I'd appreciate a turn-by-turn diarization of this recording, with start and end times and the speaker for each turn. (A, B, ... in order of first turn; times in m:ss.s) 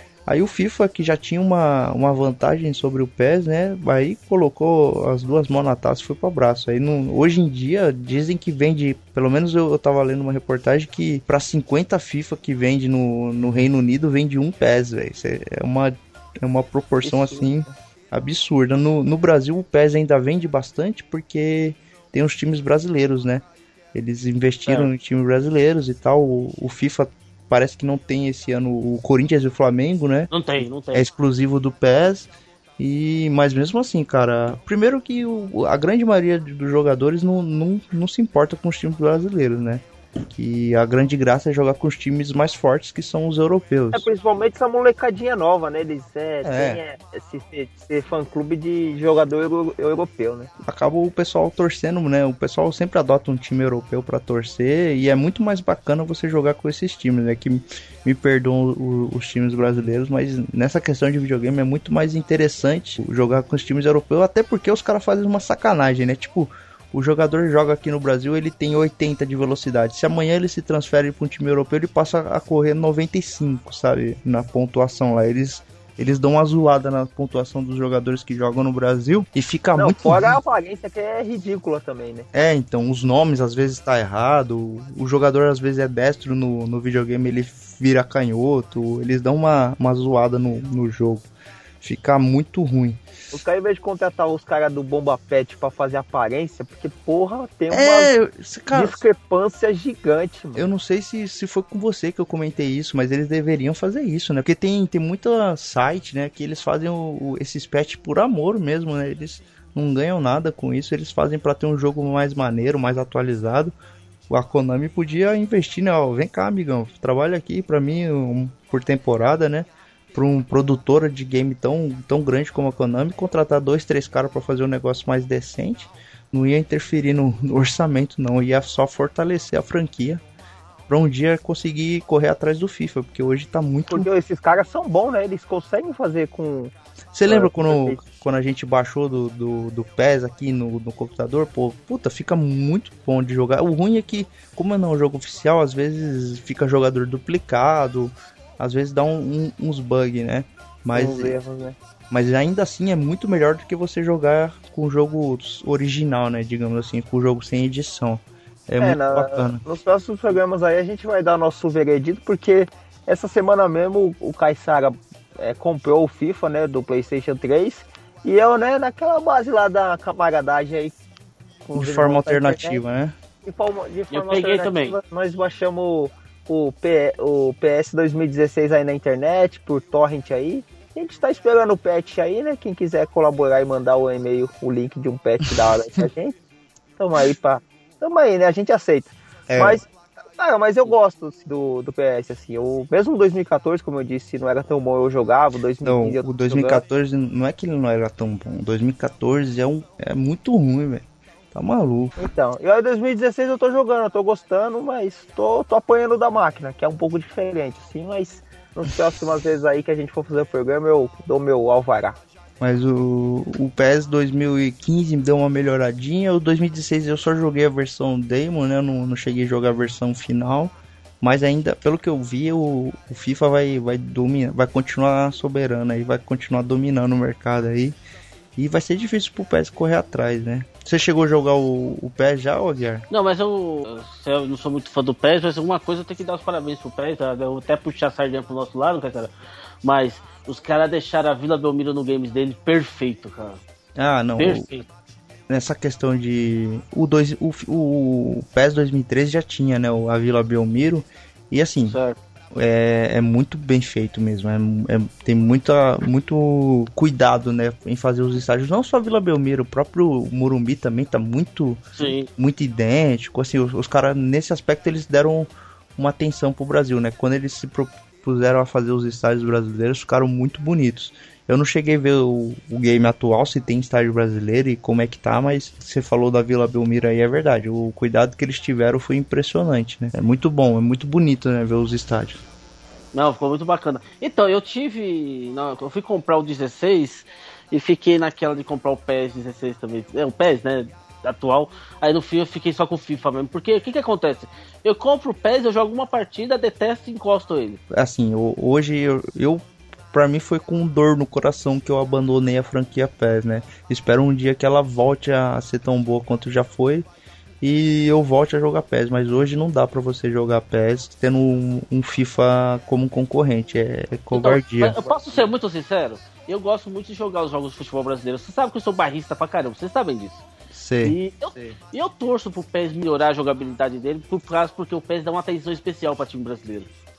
0:00.2-0:30.3 A
0:17.0-0:17.5 B
0:30.3-0:31.1 C
0:30.9-0:44.1 A
0:43.9-0:50.5 B
0:46.4-0:46.8 A
0:50.6-1:20.4 A
1:19.8-1:22.3 B
1:22.3-1:31.2 A
1:31.8-1:33.0 A
1:33.3-1:38.1 B
1:37.7-1:39.0 A
1:38.7-1:40.6 B
1:40.5-1:53.7 A
1:54.3-2:10.2 A
2:10.9-2:14.1 A
2:13.9-2:16.7 B
2:17.1-2:31.3 A
2:17.2-2:18.0 B
2:30.9-2:31.7 B
2:32.1-2:39.6 A
2:38.8-2:50.9 B
2:51.6-2:52.8 B
2:51.7-2:53.1 A
2:53.4-3:06.3 B
2:54.1-2:55.0 C
3:07.0-3:16.8 B
3:09.5-3:09.8 A
3:15.8-3:22.1 A
3:22.2-3:32.2 B
3:32.6-3:48.0 A
3:48.6-3:53.0 A
3:53.1-3:59.3 C
3:59.8-4:03.6 C
4:04.0-4:04.7 A
4:04.4-4:04.8 C
4:05.5-4:12.0 A
4:11.9-4:12.2 C
4:12.5-4:21.8 A
4:22.0-4:22.3 C
4:22.4-4:42.4 A
4:43.1-4:57.8 C
4:57.9-5:07.0 A
5:07.6-5:14.9 A
5:14.3-5:20.4 C
5:15.0-5:15.5 B
5:20.7-5:21.2 A
5:21.0-5:26.9 C